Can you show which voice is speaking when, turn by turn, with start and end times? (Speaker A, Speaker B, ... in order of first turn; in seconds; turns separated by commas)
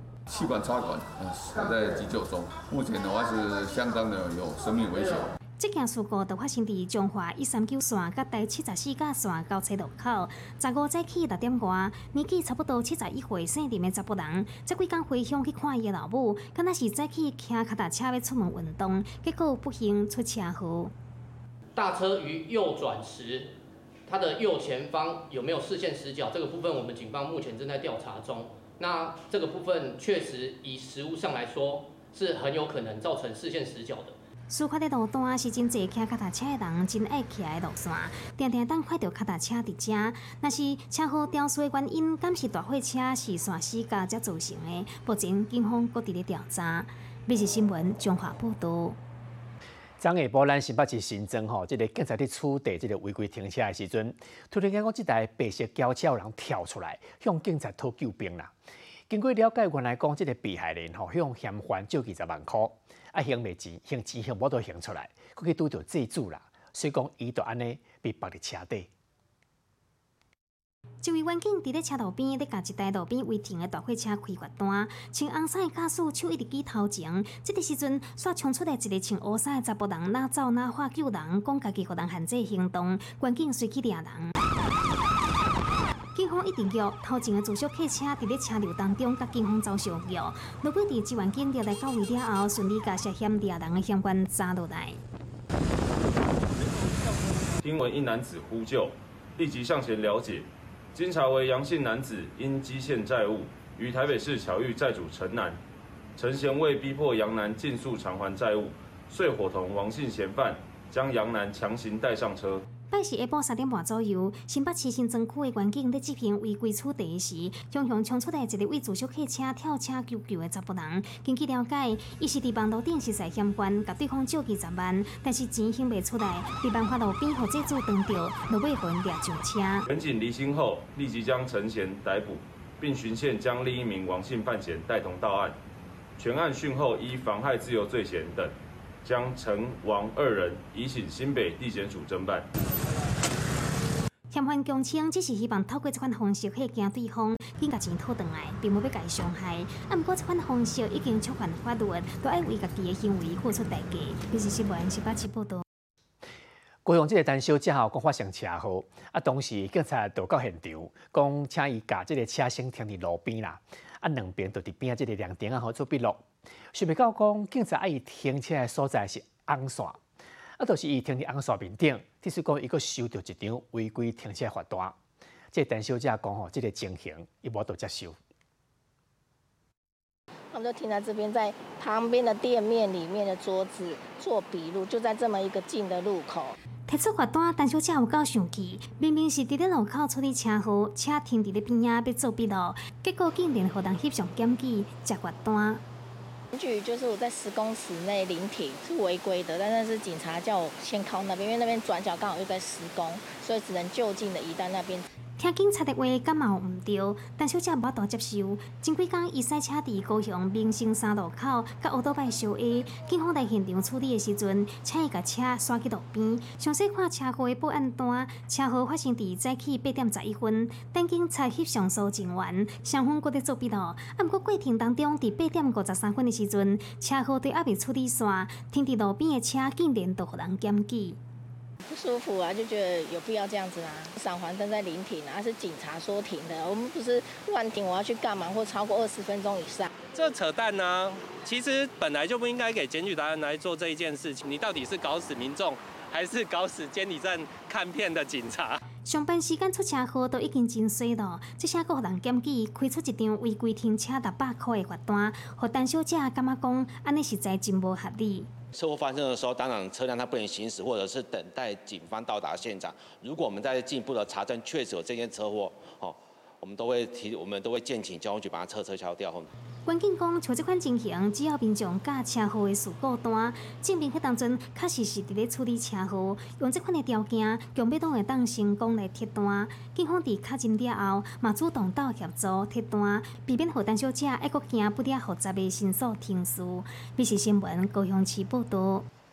Speaker A: 0.3-5.3, Speaker B: 5.6-20.9, Speaker C: 21.7-23.6, Speaker C: 24.1-34.2, Speaker B: 34.5-49.0, Speaker D: 50.0-58.5, Speaker D: 59.1-68.9, Speaker B: 71.0-84.3, Speaker B: 86.2-95.0, Speaker E: 97.6-105.6, Speaker E: 106.2-112.6, Speaker B: 112.9-129.9, Speaker E: 129.9-135.6, Speaker E: 136.2-142.5, Speaker B: 144.3-155.6, Speaker D: 156.8-170.0, Speaker D: 170.6-175.0, Speaker D: 175.5-178.2, Speaker F: 180.5-186.6, Speaker B: 186.9-195.8, Speaker F: 196.5-205.1, Speaker B: 205.4-231.2, Speaker F: 231.8-239.9, Speaker G: 240.2-240.8, Speaker G: 242.0-243.0, Speaker G: 245.4-245.7, Speaker G: 246.8-247.1, Speaker G: 248.0-248.7, Speaker B: 249.1-258.5, Speaker H: 258.7-269.5, Speaker B: 269.9-289.1